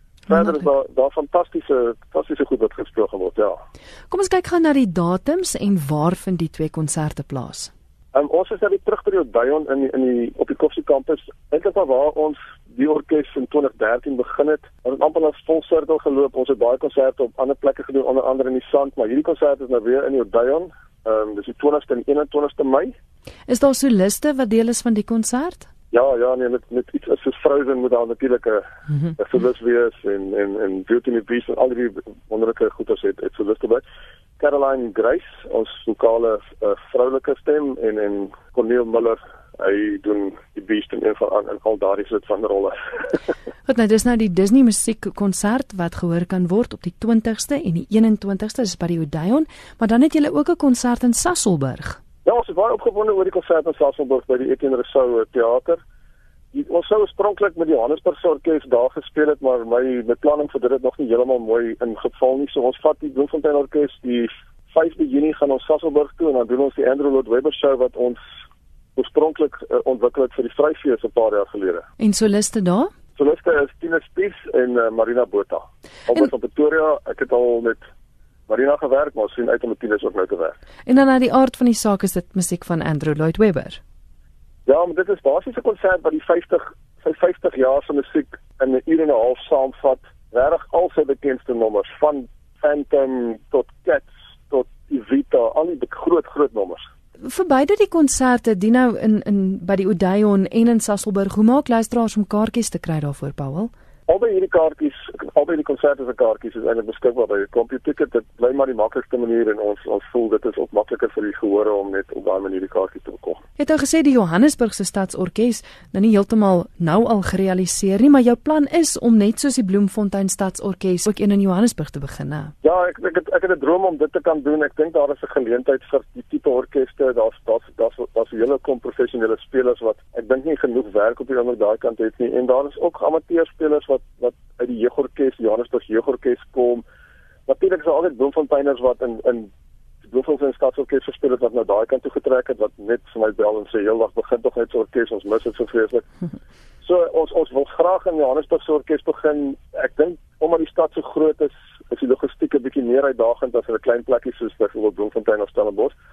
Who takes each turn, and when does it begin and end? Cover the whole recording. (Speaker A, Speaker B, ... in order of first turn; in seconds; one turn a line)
Speaker A: 0.3-3.6
Speaker B: 0.3-0.6
Speaker B: 4.1-7.7
Speaker A: 8.1-22.9
Speaker B: 23.5-25.7
Speaker A: 25.9-28.6
Speaker A: 29.2-33.8
Speaker A: 34.4-43.2
Speaker B: 43.7-52.0
Speaker A: 52.2-55.8
Speaker A: 56.5-68.2
Speaker A: 69.0-71.9
Speaker B: 72.0-72.9
Speaker A: 73.2-77.8
Speaker A: 78.5-80.6
Speaker B: 80.9-83.8
Speaker A: 84.7-96.9
Speaker B: 97.2-103.7
Speaker A: 104.1-113.4
Speaker B: 113.6-122.5
Speaker A: 122.6-136.8
Speaker A: 137.5-139.5
Speaker A: 140.0-146.1
Speaker A: 146.8-155.9